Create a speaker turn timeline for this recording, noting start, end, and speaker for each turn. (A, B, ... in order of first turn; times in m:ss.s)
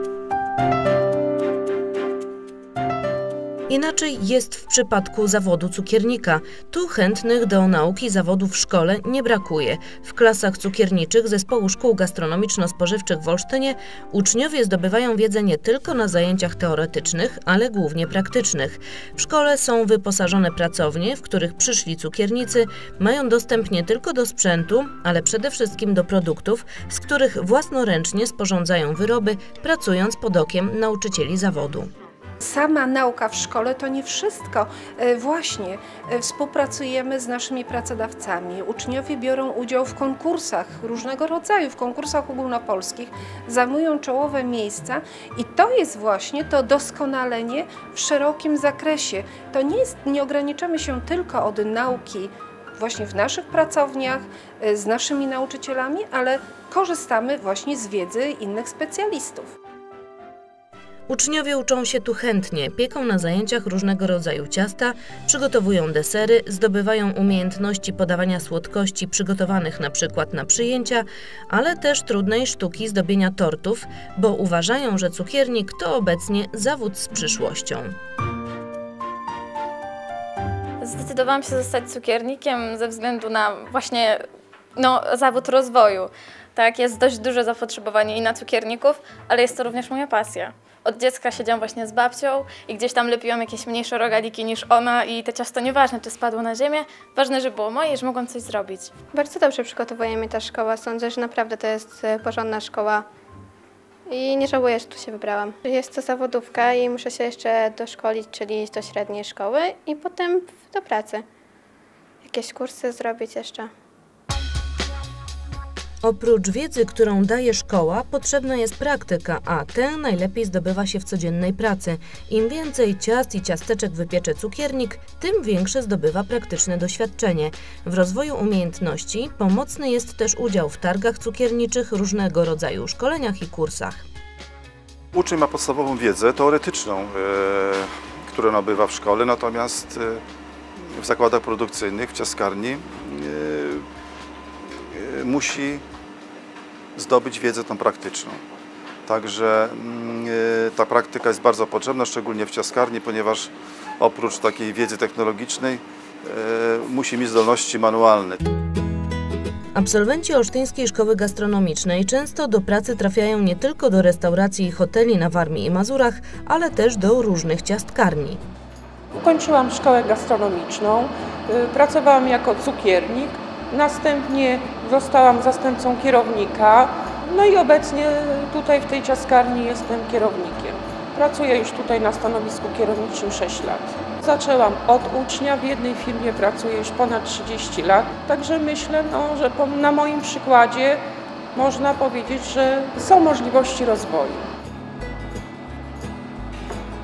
0:03.7-0:31.9 A
0:32.4-0:59.5 B
1:01.1-1:17.9 A
1:20.8-1:24.2 C
1:24.8-1:38.9 C
1:39.1-1:43.0 D
1:44.1-1:51.2 D
1:52.2-1:53.7 D
1:56.0-2:14.0 A
2:15.1-2:20.2 E
2:21.0-2:23.8 E
2:24.9-2:25.8 E
2:27.0-2:28.4 E
2:29.0-2:38.4 E
2:39.7-2:48.4 A
2:49.1-3:11.0 F
3:11.5-3:14.5 F